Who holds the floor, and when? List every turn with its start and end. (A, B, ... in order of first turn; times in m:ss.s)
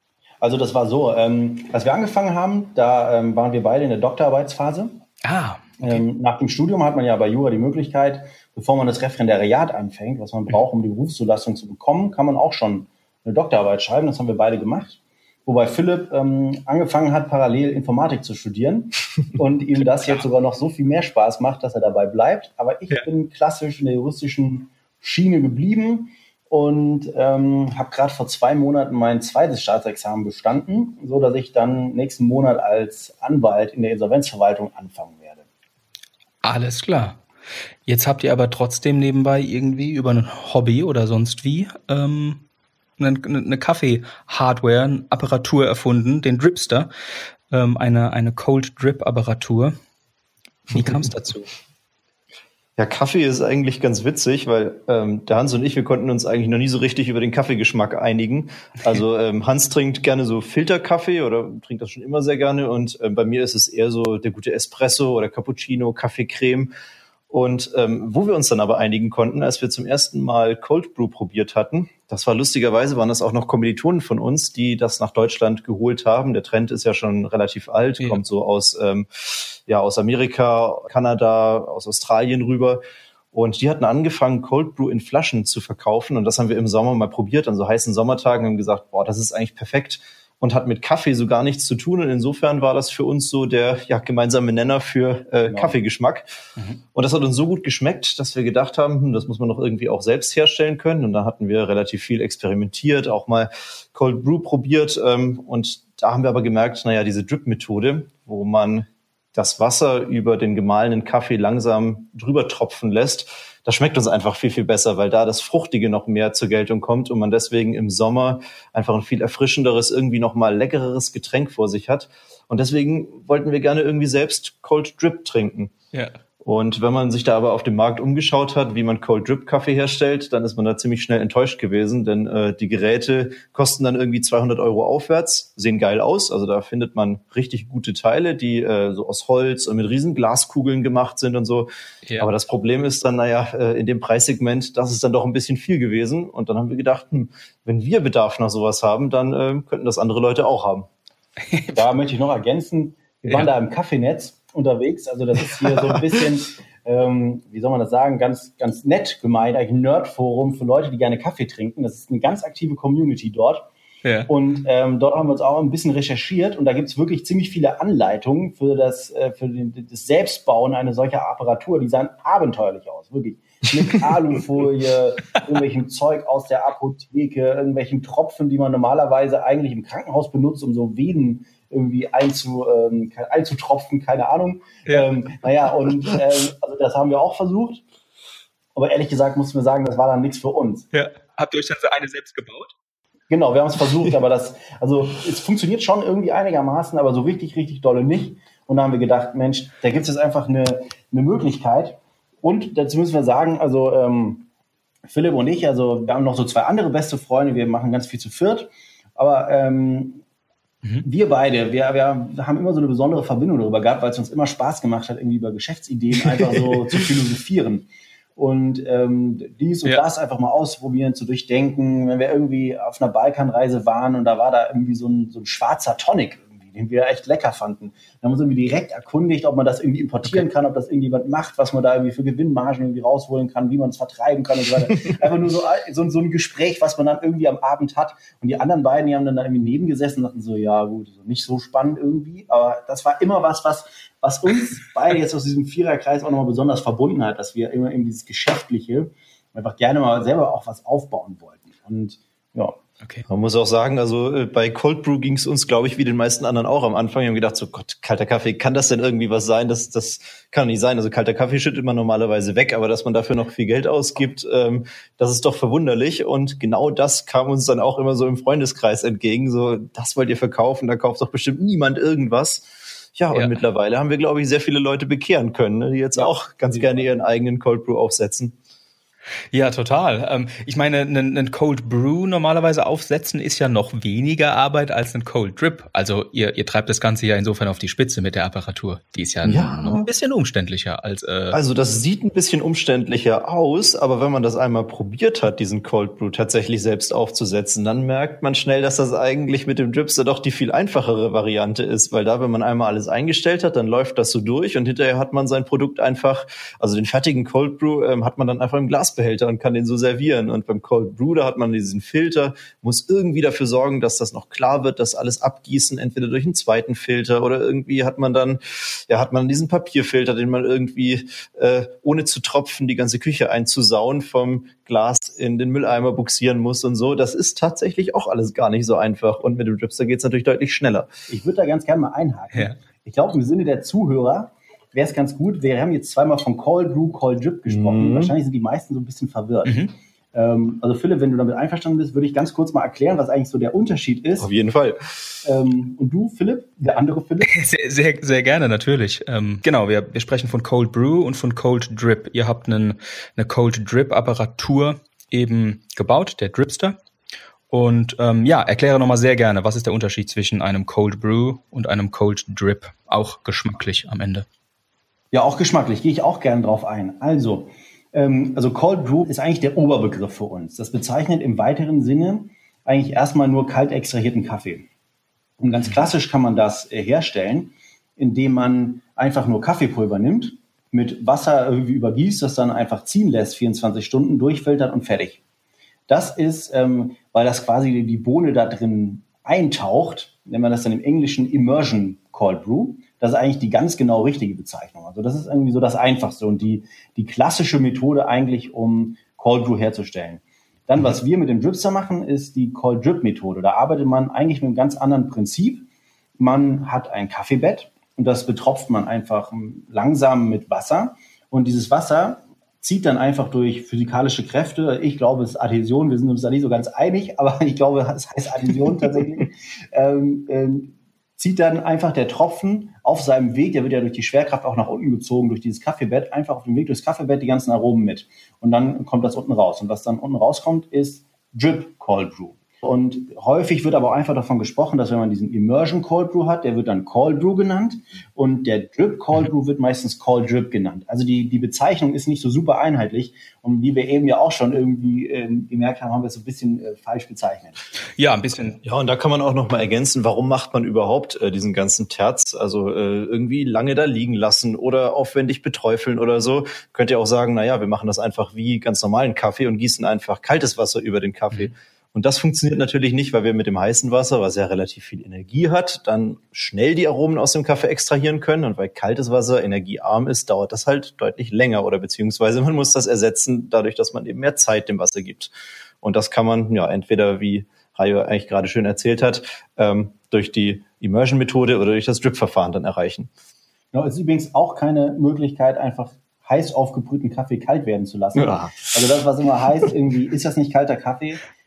0:00.4-0:05.0 A
0:05.2-0:06.0 B
0:05.8-0:35.4 A
0:36.4-0:37.2 B
0:37.9-0:42.4 B
0:43.0-0:46.9 B
0:47.5-0:49.7 B
0:50.7-0:51.5 B
0:52.8-1:06.7 C
1:07.3-1:22.8 C
1:23.3-1:36.3 C
1:35.5-1:35.8 A
1:36.9-2:05.7 C
2:06.4-2:30.9 C
2:31.5-2:31.9 B
2:31.7-2:43.7 A
2:44.0-2:44.3 B
2:44.3-3:07.8 A
3:04.9-3:05.1 B
3:08.8-3:10.9 A
3:10.9-3:12.7 B
3:13.3-3:24.5 A
3:25.1-3:30.2 A
3:31.0-4:12.8 A
4:13.3-4:38.6 C
4:33.3-4:33.6 B
4:36.2-4:37.1 A
4:39.5-4:51.6 B
4:49.4-4:50.0 C
4:51.5-5:31.1 C
5:31.3-5:39.8 A
5:37.7-5:38.3 C
5:39.6-5:39.9 B
5:40.3-5:44.5 A
5:44.4-5:45.1 C
5:45.4-5:47.5 A
5:47.5-5:57.0 B
5:57.7-6:04.5 B
6:05.3-6:14.9 A
6:15.6-6:25.4 A
6:26.1-6:45.8 A
6:46.4-7:27.8 A
7:28.2-7:28.8 B
7:28.8-8:03.3 C
8:03.9-8:11.4 A
8:08.4-8:08.9 C